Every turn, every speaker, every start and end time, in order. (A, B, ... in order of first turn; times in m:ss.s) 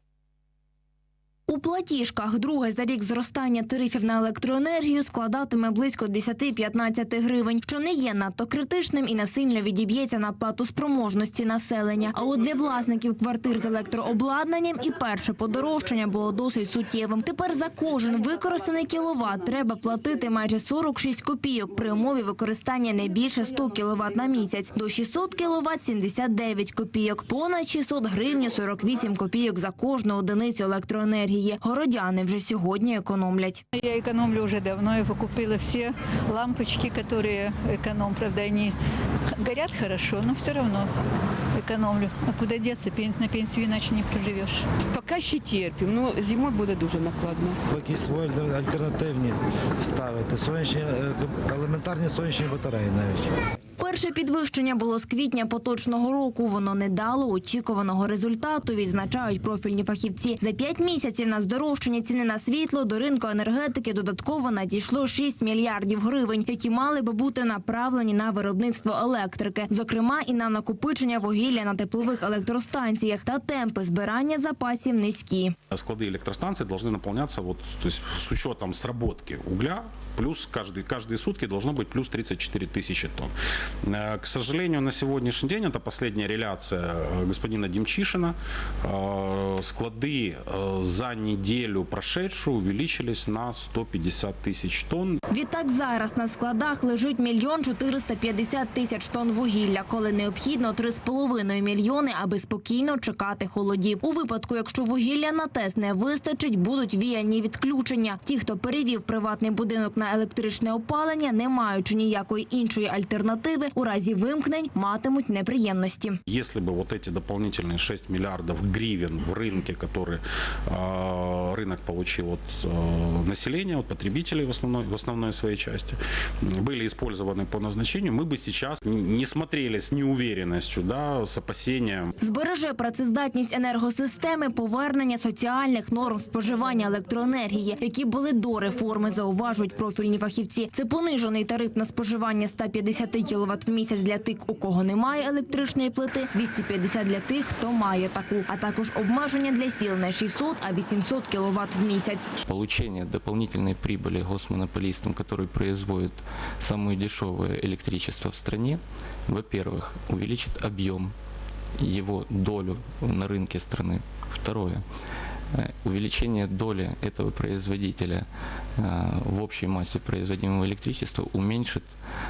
0:01.5-0:33.6 A
0:33.7-0:38.7 B
0:39.4-0:40.9 B
0:41.6-0:44.6 B
0:44.9-0:47.6 C
0:47.7-0:53.3 D
0:53.8-1:15.6 A
1:15.7-1:23.3 E
1:23.8-1:35.2 E
1:35.3-1:56.2 A
1:56.3-2:12.1 E
2:12.2-2:32.3 A
2:32.4-2:41.1 F
2:41.8-2:44.8 F
2:45.5-2:48.3 F
2:48.8-2:51.9 F